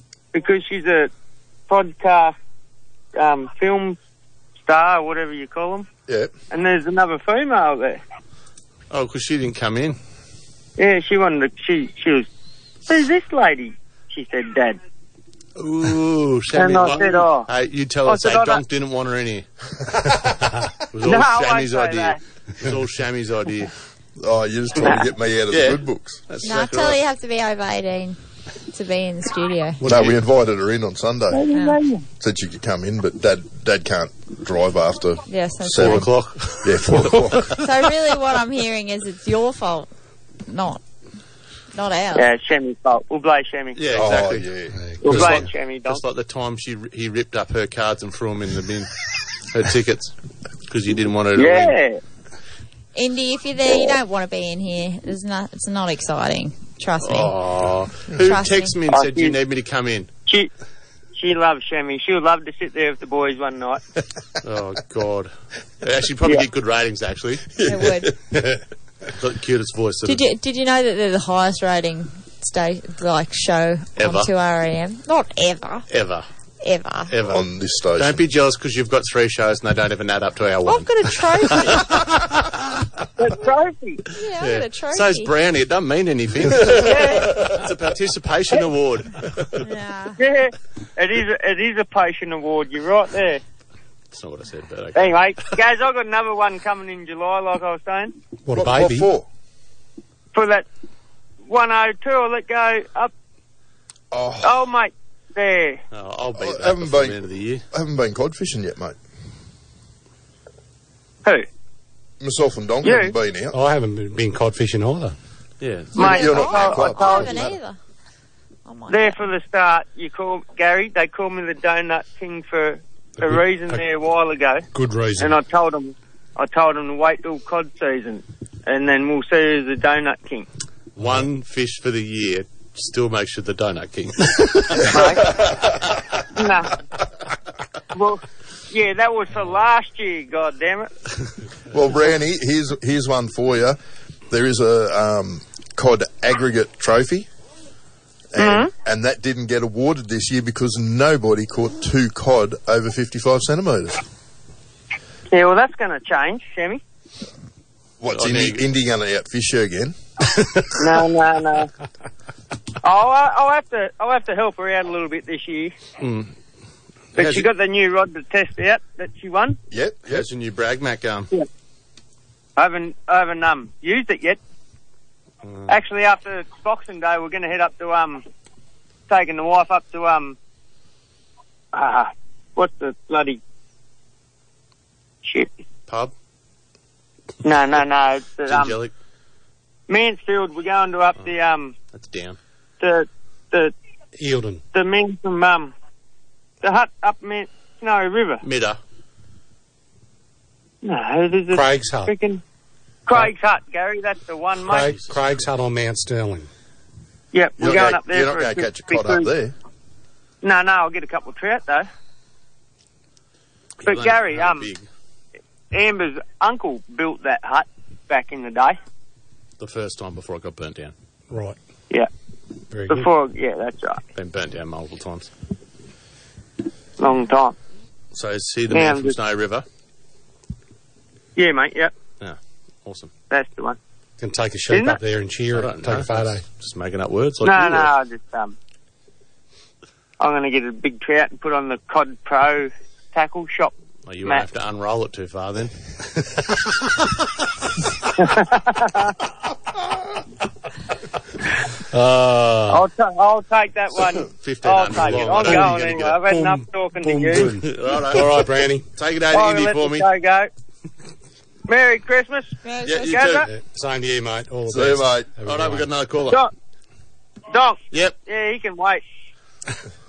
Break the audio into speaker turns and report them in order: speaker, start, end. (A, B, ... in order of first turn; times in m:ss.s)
0:00.3-0:01.1 A
0:01.7-0:02.3 A
0:03.2-0:04.0 A
0:04.6-0:05.9 A
0:06.1-0:06.3 B
0:06.5-0:08.0 A
0:08.9-0:10.0 C
0:10.8-0:12.3 A
0:12.9-0:14.8 A
0:15.6-0:19.4 C
0:16.5-0:17.5 A
0:18.0-0:18.6 A
0:20.9-0:23.7 C
0:21.0-0:22.2 A
0:24.2-0:26.2 B
0:25.5-0:27.0 C
0:26.4-0:28.2 D
0:28.7-0:29.8 D
0:29.8-0:30.2 C
0:29.8-0:31.5 B
0:31.3-0:32.0 A
0:32.2-0:37.6 B
0:35.3-0:36.1 D
0:35.7-0:37.7 C
0:37.6-0:39.9 D
0:40.4-0:40.8 D
0:41.7-0:42.3 D
0:42.1-0:43.8 A
0:43.8-0:44.5 C
0:43.9-0:44.8 B
0:44.8-0:45.4 E
0:45.0-0:46.0 A
0:45.0-0:48.9 C
0:49.5-0:50.1 C
0:50.7-0:51.7 C
0:51.3-0:52.0 A
0:52.9-0:57.4 D
0:57.0-1:00.1 C
0:58.2-0:58.8 D
0:58.9-0:59.4 A
1:01.1-1:03.8 A
1:04.4-1:05.3 C
1:05.8-1:07.6 C
1:07.6-1:08.1 B
1:07.6-1:08.2 D
1:09.2-1:10.2 C
1:10.0-1:15.9 D
1:14.0-1:14.3 C
1:15.9-1:16.3 C
1:16.6-1:17.1 D
1:17.1-1:22.3 C
1:17.2-1:18.3 B
1:20.6-1:22.0 D
1:23.2-1:24.1 A
1:24.1-1:25.3 D
1:24.4-1:29.4 C
1:26.7-1:27.3 A
1:29.6-1:30.2 D
1:30.2-1:33.4 A
1:34.1-1:35.5 C
1:34.9-1:38.1 A
1:38.4-1:39.1 E
1:38.5-1:39.2 B
1:40.3-1:40.6 A
1:41.4-1:43.1 A
1:44.1-1:44.6 B
1:44.4-1:45.8 A
1:45.9-1:47.6 C
1:46.3-1:49.0 B
1:52.2-1:53.6 B
1:52.8-1:53.1 A
1:53.5-1:55.1 E
1:55.6-1:56.2 C
1:55.9-1:57.6 B
1:56.0-1:57.4 A
1:56.0-1:57.8 D
1:58.6-1:59.2 D
1:58.9-2:04.6 A
2:03.2-2:03.8 E
2:04.7-2:05.4 E
2:05.2-2:10.4 A
2:11.0-2:14.9 C
2:14.8-2:15.3 A
2:14.9-2:15.7 B
2:16.3-2:16.7 A
2:17.9-2:20.9 A
2:21.7-2:23.8 B
2:24.3-2:27.3 B
2:28.3-2:34.0 B
2:28.4-2:28.7 A
2:35.3-2:36.8 A
2:38.0-2:40.0 B
2:38.1-2:38.6 C
2:40.8-2:41.7 A
2:42.8-2:45.7 A
2:46.0-2:46.3 C
2:47.1-2:47.5 C
2:47.2-2:49.6 A
2:49.7-2:50.3 B
2:50.1-2:51.3 C
2:52.6-2:54.4 A
2:55.4-2:55.7 C
2:55.7-2:58.2 A
2:59.1-3:00.4 A
3:01.7-3:03.4 A
3:05.2-3:05.5 A
3:05.9-3:06.1 C
3:07.4-3:08.8 A
3:08.5-3:08.9 C
3:09.9-3:11.7 A
3:11.9-3:12.4 C
3:12.8-3:13.7 A
3:14.2-3:14.6 E
3:14.7-3:15.7 A
3:16.6-3:18.4 A
3:18.4-3:18.8 C
3:20.8-3:22.4 A
3:21.5-3:22.1 E
3:23.1-3:24.9 A
3:24.6-3:26.5 E
3:27.3-3:29.3 A
3:27.6-3:29.5 B
3:30.4-3:31.9 A
3:33.8-3:34.8 C
3:33.8-3:34.7 A
3:35.7-3:38.8 A
3:39.6-3:40.9 C
3:41.3-3:41.6 E
3:42.7-3:43.1 E
3:42.9-3:44.0 A
3:44.1-3:45.3 C
3:47.0-3:47.5 A
3:48.1-3:49.6 C
3:48.7-3:49.2 A
3:51.4-3:51.9 A
3:52.2-3:53.1 C
3:53.3-3:53.8 A
3:54.2-3:56.4 E
3:54.7-3:55.0 A
3:55.5-3:57.9 C
3:57.4-3:58.5 A
4:00.2-4:03.7 A
4:04.0-4:05.7 C
4:08.2-4:09.1 A
4:11.9-4:12.8 E
4:12.7-4:17.5 A
4:14.3-4:16.2 C
4:15.2-4:15.5 E
4:16.3-4:18.8 E
4:17.6-4:20.0 C
4:19.3-4:20.5 A
4:21.7-4:23.5 A
4:22.6-4:23.3 D
4:22.8-4:23.4 C
4:23.5-4:25.9 E
4:24.7-4:25.3 B
4:25.4-4:26.4 C
4:27.5-4:29.0 A